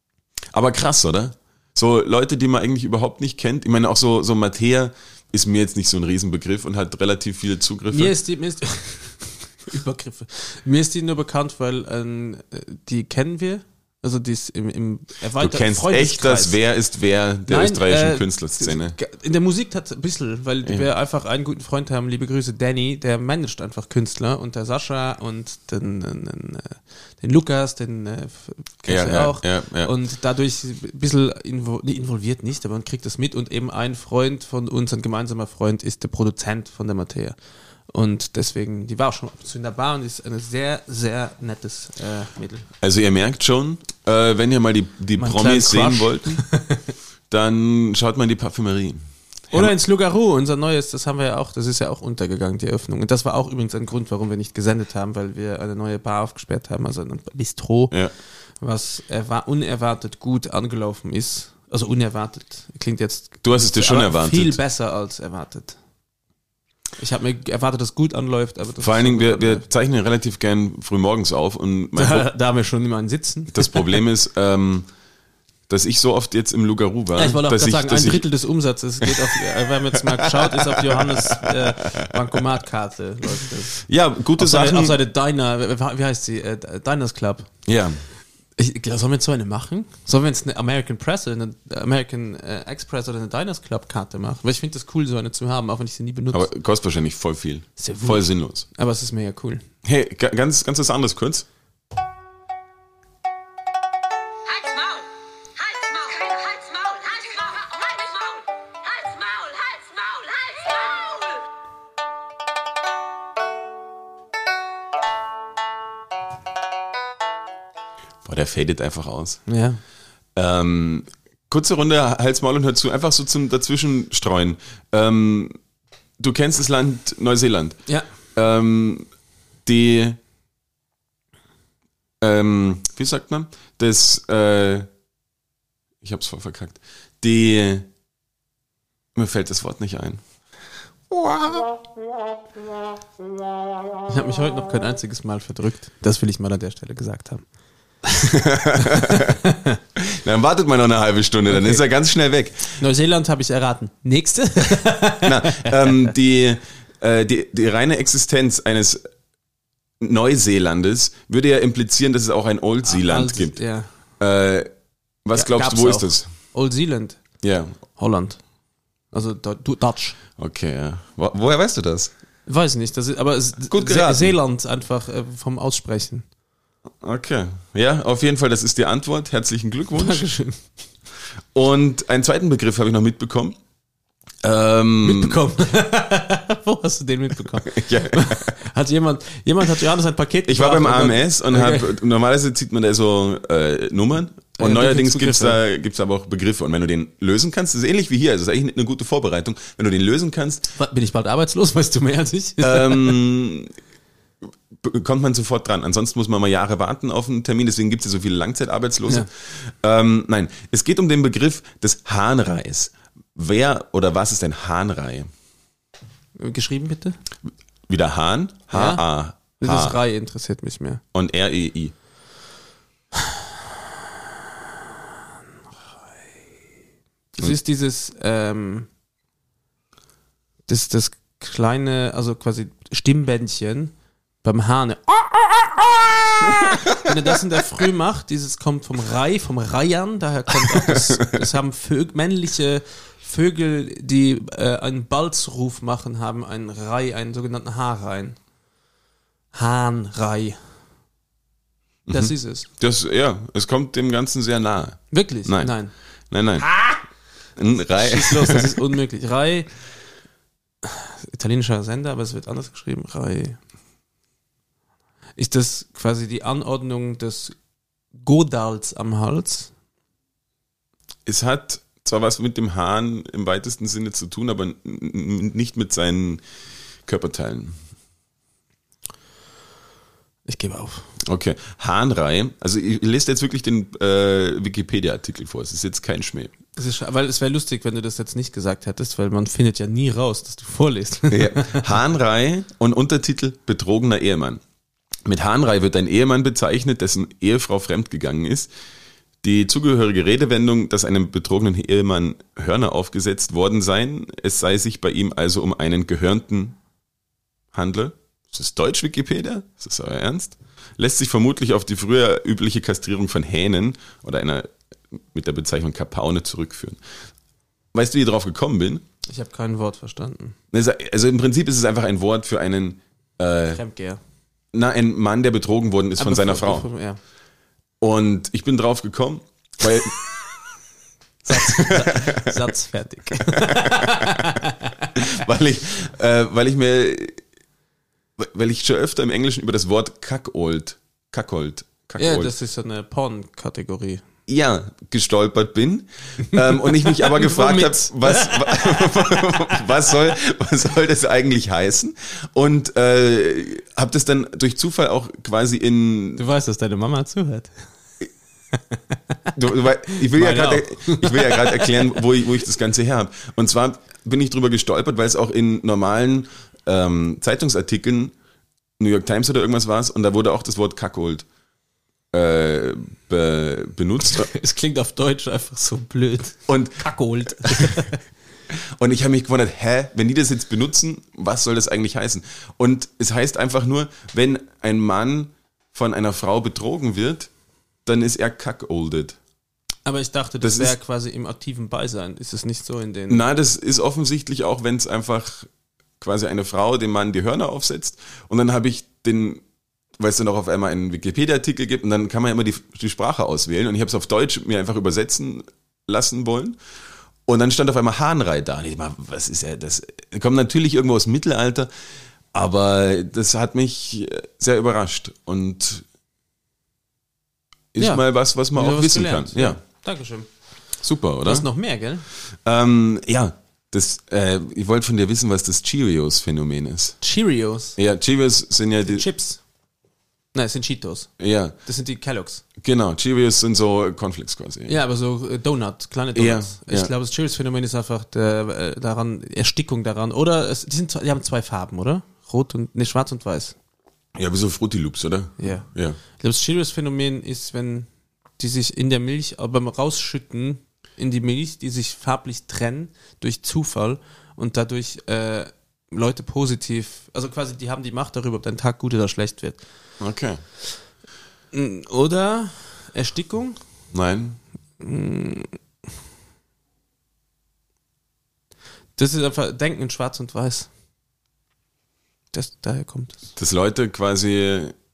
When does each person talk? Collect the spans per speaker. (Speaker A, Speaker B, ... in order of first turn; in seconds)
Speaker A: 0.5-8.1, 15.4-18.9, 28.9-29.9, 42.8-46.4, 47.3-49.7, 63.4-64.6, 68.8-72.3, 73.5-74.9, 75.7-78.2, 79.0-79.4, 79.9-82.2, 83.8-85.0, 87.7-88.0, 96.3-98.7, 99.8-101.5, 118.2-119.4, 120.3-125.6, 126.2-127.8, 128.3-129.1, 129.6-130.2, 132.2-134.9, 136.0-137.9, 139.1-140.2, 141.1-141.6, 148.2-149.3, 149.9-152.8, 155.2-159.0, 160.0-163.6, 164.2-164.7, 165.2-166.3, 167.4-167.7, 170.4-172.1, 173.7-174.3, 177.0-180.2, 181.5-183.6, 184.4-185.4, 187.6-188.5, 190.4-200.7, 202.6-203.7, 204.8-215.3, 217.9-220.0, 221.1-221.9, 240.6-241.4, 252.1-255.7, 256.3-256.8, 257.6-258.7, 271.2-276.4, 277.0-277.8, 281.2-286.5, 291.3-294.6, 295.2-298.7, 299.4-306.8, 307.7-314.7, 315.3-317.0, 317.9-319.0, 320.7-323.8, 324.7-326.9, 328.0-330.2, 331.4-332.6, 333.4-334.5, 335.1-337.4, 338.4-342.5, 344.5-356.4, 359.5-368.3, 369.0-371.4, 372.3-374.5, 376.7-378.0, 378.7-387.5, 388.1-389.4, 390.6-390.9, 393.3-395.7, 396.2-399.6, 400.2-406.8, 407.4-411.9, 412.5-416.0, 417.9-419.8, 421.0-421.7, 422.5-427.2, 428.0-429.2, 431.4-431.7, 432.8-434.9, 436.3-437.1, 444.3-446.2, 460.2-460.6, 464.1-464.6, 473.6-474.9
Speaker B: 7.9-16.6, 17.5-37.4, 37.9-42.7, 45.2-46.8, 49.5-58.0, 58.6-65.8, 67.0-69.6, 72.0-74.0, 77.1-83.8, 84.4-87.5, 88.6-96.5, 97.8-99.6, 119.5-119.8, 144.1-147.4, 148.8-149.8, 151.5-151.8, 152.8-156.1, 162.9-163.9, 165.3-167.2, 167.9-168.4, 169.1-170.2, 172.5-176.2, 179.9-180.6, 185.0-191.9, 194.6-195.6, 200.7-203.2, 216.3-217.2, 218.7-221.0, 227.4-228.9, 230.7-248.4, 249.5-250.6, 252.1-252.7, 255.1-255.9, 256.6-257.0, 257.9-259.7, 260.8-263.6, 265.4-267.5, 268.1-269.7, 280.4-281.1, 286.8-291.9, 319.3-320.6, 323.7-324.2, 326.2-327.2, 331.5-335.1, 342.2-344.2, 347.0-349.3, 356.4-357.7, 358.8-359.1, 360.2-362.1, 374.3-378.2, 390.0-393.4, 418.0-420.5, 421.4-422.2, 427.2-428.0, 429.0-429.6, 430.5-431.3, 431.8-432.6, 434.9-443.8, 445.6-448.1, 448.6-459.8, 461.7-463.8, 465.0-465.7, 469.2-470.9, 472.5-473.4
Speaker C: 104.5-111.4